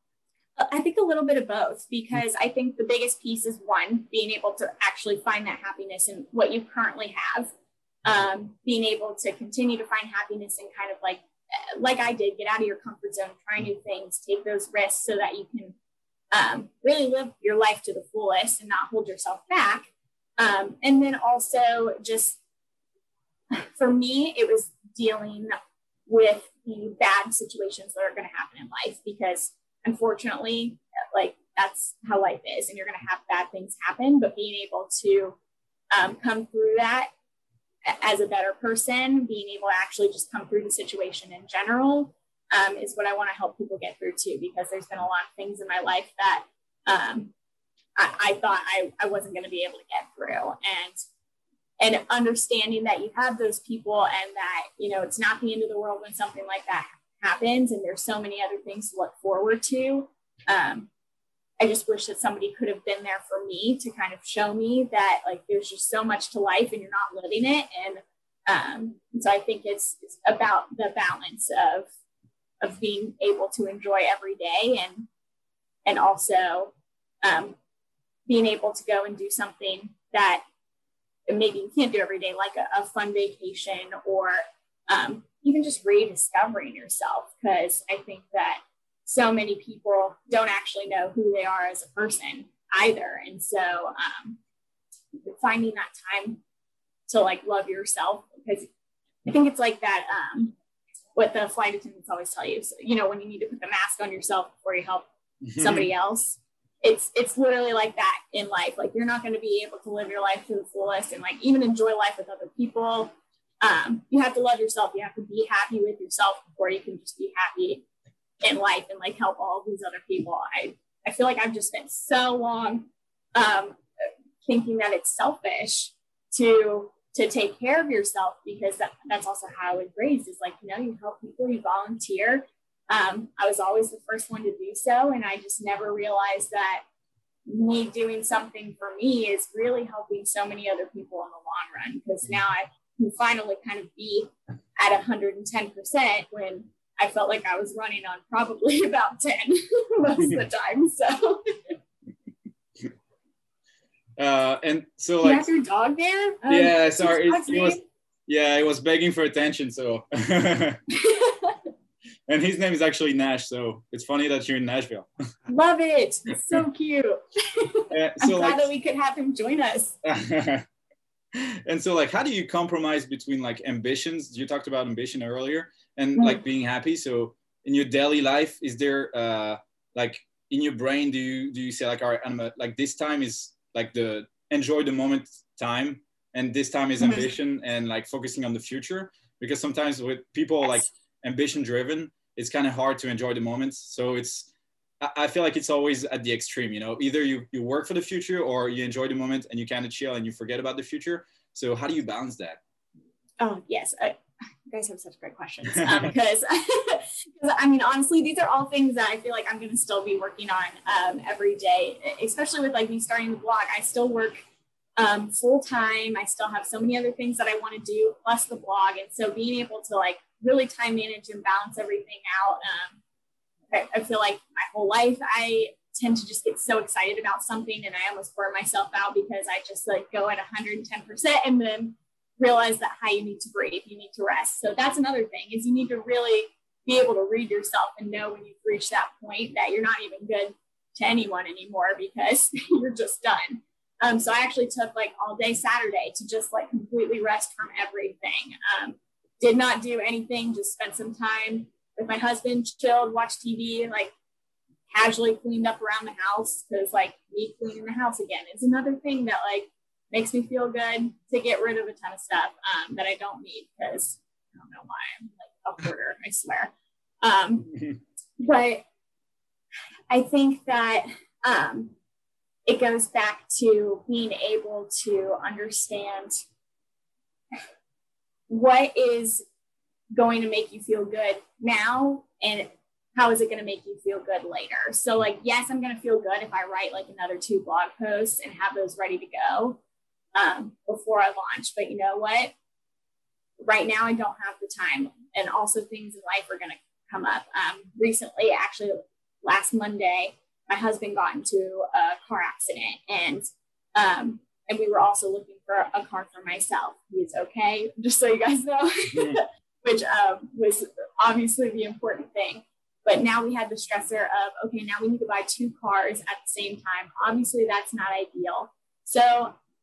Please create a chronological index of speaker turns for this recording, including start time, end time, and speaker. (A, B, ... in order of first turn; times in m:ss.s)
0:00.6-0:07.5 A
0:08.0-0:11.2 A
0:11.8-0:15.8 A
0:16.3-0:22.4 A
0:23.5-0:25.6 A
0:26.1-0:35.4 A
0:35.9-0:37.1 A
0:37.9-0:47.3 A
0:48.0-0:51.0 A
0:51.8-1:00.9 A
1:01.6-1:11.9 A
1:12.6-1:15.1 A
1:15.9-1:16.7 A
1:17.2-1:17.6 A
1:18.3-1:20.4 A
1:21.3-1:34.4 A
1:35.3-1:36.4 A
1:37.1-1:38.7 A
1:39.2-1:40.6 A
1:41.2-1:57.8 A
1:45.4-1:45.9 B
1:58.4-2:03.8 A
2:04.4-2:16.8 A
2:17.5-2:31.8 A
2:34.2-2:35.5 B
2:35.2-2:37.8 A
2:36.5-2:40.8 B
2:40.9-2:41.6 A
2:42.3-2:45.1 B
2:45.5-2:50.0 A
2:47.9-2:48.7 B
2:50.0-2:50.7 B
2:51.3-3:14.5 B
2:56.2-2:56.4 A
3:07.0-3:07.3 A
3:15.0-3:22.6 B
3:23.4-3:34.4 A
3:35.0-3:43.0 A
3:43.7-4:14.1 A
4:14.9-4:27.7 A
4:28.4-4:28.8 A
4:30.1-4:32.0 A
4:32.7-4:36.4 A
4:38.5-4:39.4 A
4:40.1-4:49.8 A
4:50.4-4:52.5 A
4:53.6-5:19.6 A